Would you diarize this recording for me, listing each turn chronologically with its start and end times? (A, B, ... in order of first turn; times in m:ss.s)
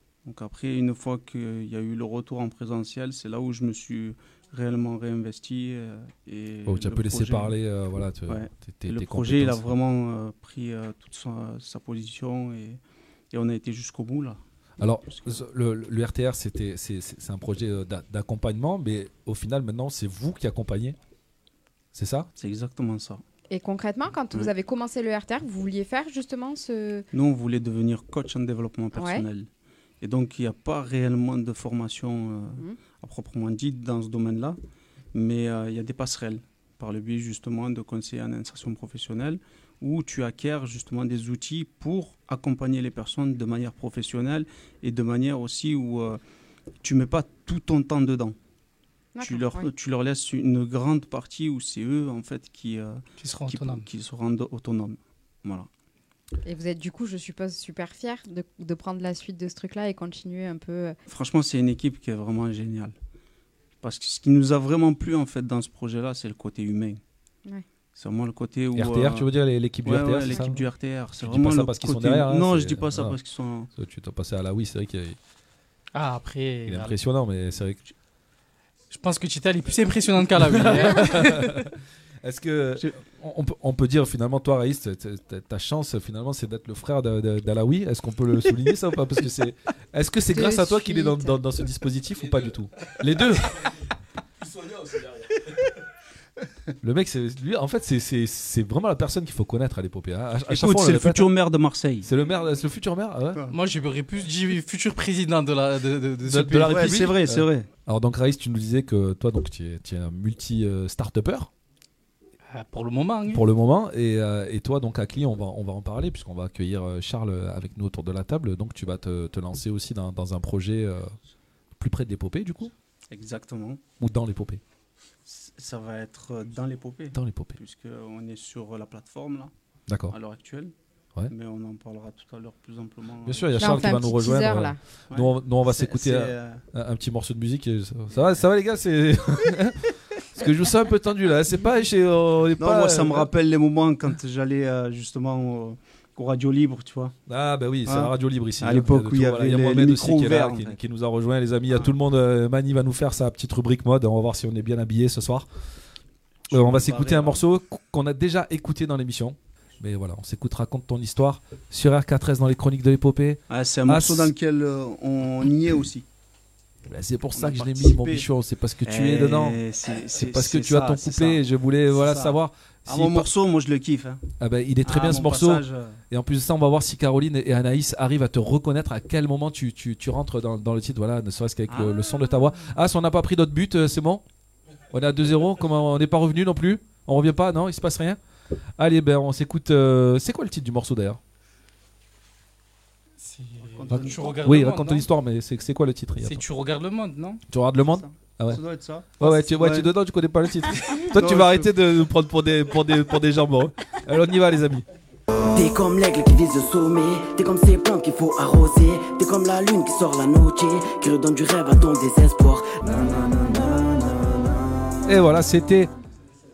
0:00.2-0:07.6 A
0:06.7-0:09.7 B
0:08.3-0:12.8 A
0:13.3-0:14.4 A
0:14.8-0:21.0 B
0:15.1-0:15.4 A
0:21.9-0:22.3 B
0:22.4-0:23.2 A
0:23.5-0:27.1 C
0:27.1-0:29.5 A
0:29.0-0:29.3 C
0:30.0-0:34.6 A
0:35.1-0:46.2 A
0:46.8-0:48.4 A
0:49.2-0:49.7 C
0:49.2-0:55.7 A
0:53.2-0:53.9 D
0:56.4-1:01.0 C
1:01.1-1:02.9 A
1:03.8-1:07.0 A
1:08.0-1:09.3 A
1:08.8-1:10.6 B
1:09.8-1:13.7 A
1:11.2-1:13.2 B
1:13.7-1:15.2 B
1:15.9-1:17.0 D
1:16.7-1:17.8 B
1:18.9-1:21.6 D
1:20.4-1:21.7 B
1:22.2-1:33.6 B
1:30.3-1:31.4 C
1:36.8-1:41.3 B
1:40.5-1:42.1 A
1:42.0-1:43.4 B
1:43.5-1:47.0 D
1:46.3-1:51.5 B
1:46.6-1:47.7 A
1:52.5-1:53.4 D
1:53.3-2:01.1 B
2:01.8-2:02.7 B
2:03.1-2:03.8 A
2:04.0-2:04.6 B
2:05.3-2:09.5 A
2:07.1-2:07.6 B
2:09.9-2:10.2 B
2:10.1-2:10.7 A
2:11.3-2:13.9 A
2:13.3-2:23.3 B
2:13.6-2:14.8 C
2:15.1-2:16.6 A
2:18.1-2:18.4 A
2:22.6-2:27.2 A
2:27.3-2:35.5 B
2:27.9-2:30.8 A
2:31.7-2:32.0 A
2:36.5-2:37.5 A
2:36.5-2:44.3 B
2:43.5-2:46.1 A
2:46.9-2:49.6 B
2:47.3-2:48.3 A
2:48.8-2:54.2 A
2:50.1-2:53.3 B
2:54.4-3:04.2 B
2:54.8-2:56.0 A
3:01.7-3:02.5 A
3:04.9-3:08.2 B
3:08.8-3:11.2 B
3:13.2-3:15.1 D
3:13.6-3:14.6 A
3:13.9-3:16.4 B
3:16.2-3:17.4 D
3:17.5-3:18.6 B
3:17.8-3:19.9 A
3:19.2-3:24.9 B
3:20.8-3:21.8 A
3:25.5-3:32.8 E
3:32.8-3:34.9 A
3:35.1-3:35.9 B